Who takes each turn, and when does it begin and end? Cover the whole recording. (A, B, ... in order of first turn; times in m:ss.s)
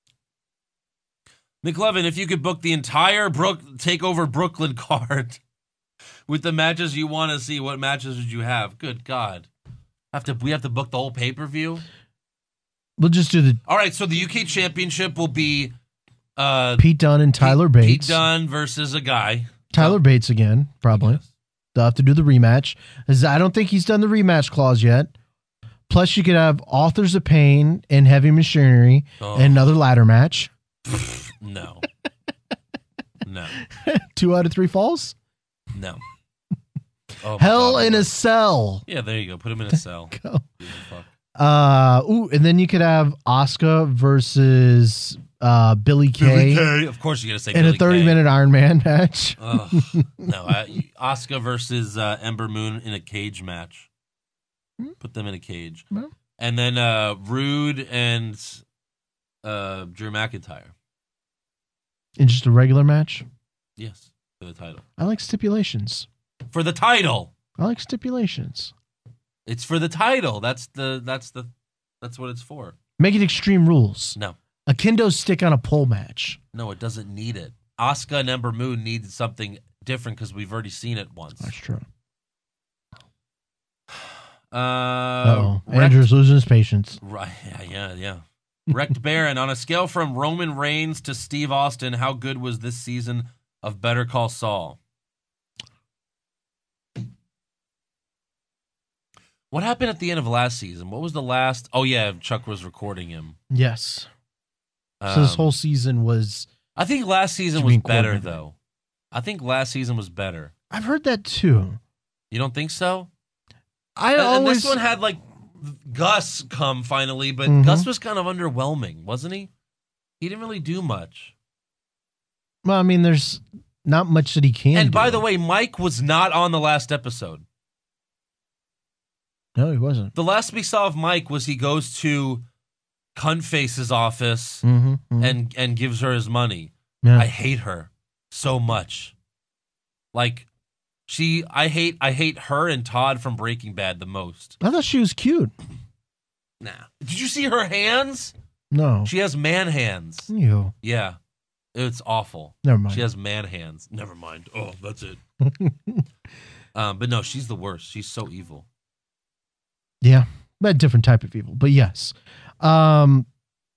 0:01.6-0:05.4 A
0:06.3-0:09.5 A
0:10.1-0:11.8 A
0:13.0-0:13.6 B
0:13.6-0:15.7 A
0:16.4-0:16.8 A
0:16.8-0:18.2 B
0:17.4-0:20.0 A
0:19.7-0:21.2 B
0:20.9-0:21.2 A
0:21.7-0:25.1 B
0:25.9-0:30.5 B
0:29.2-0:29.6 A
0:30.8-0:31.8 A
0:33.2-0:33.6 A
0:33.6-0:35.2 B
0:35.7-0:36.0 A
0:37.2-0:38.1 A
0:37.4-0:38.8 B
0:38.9-0:41.1 A
0:39.7-0:40.5 B
0:41.4-0:46.7 B
0:46.2-0:48.2 A
0:47.5-0:50.3 B
0:49.4-0:53.9 A
0:55.0-0:55.8 A
0:56.4-0:58.6 A
0:59.4-1:00.7 A
1:02.2-1:03.2 B
1:03.8-1:04.8 A
1:05.0-1:06.1 B
1:06.5-1:07.3 A
1:07.6-1:08.7 B
1:09.4-1:11.5 A
1:12.0-1:12.7 A
1:13.0-1:16.4 B
1:16.5-1:21.5 A
1:21.4-1:21.8 B
1:24.5-1:26.1 A
1:25.2-1:27.0 B
1:27.0-1:34.8 A
1:39.5-1:43.4 A
1:43.5-1:44.1 B
1:45.0-1:45.5 A
1:45.1-1:46.5 B
1:46.8-1:48.6 A
1:47.6-1:48.3 B
1:49.1-1:50.5 A
1:50.7-1:51.8 B
1:52.3-1:53.1 A
1:54.0-1:54.8 B
1:54.2-1:59.5 A
1:57.5-1:57.9 B
2:00.2-2:01.3 A
2:02.6-2:05.2 B
2:04.7-2:07.4 A
2:09.6-2:10.1 B
2:10.1-2:12.4 A
2:13.1-2:14.6 A
2:14.6-2:15.4 B
2:15.2-2:19.1 A
2:20.1-2:20.5 A
2:21.1-2:24.6 A
2:24.6-2:25.5 B
2:26.6-2:28.3 A
2:28.7-2:29.1 B
2:29.0-2:30.3 A
2:30.3-2:30.7 B
2:30.8-2:31.2 A
2:31.7-2:35.2 A
2:32.6-2:33.0 B
2:35.4-2:36.0 B
2:36.7-2:38.6 A
2:40.0-2:43.3 B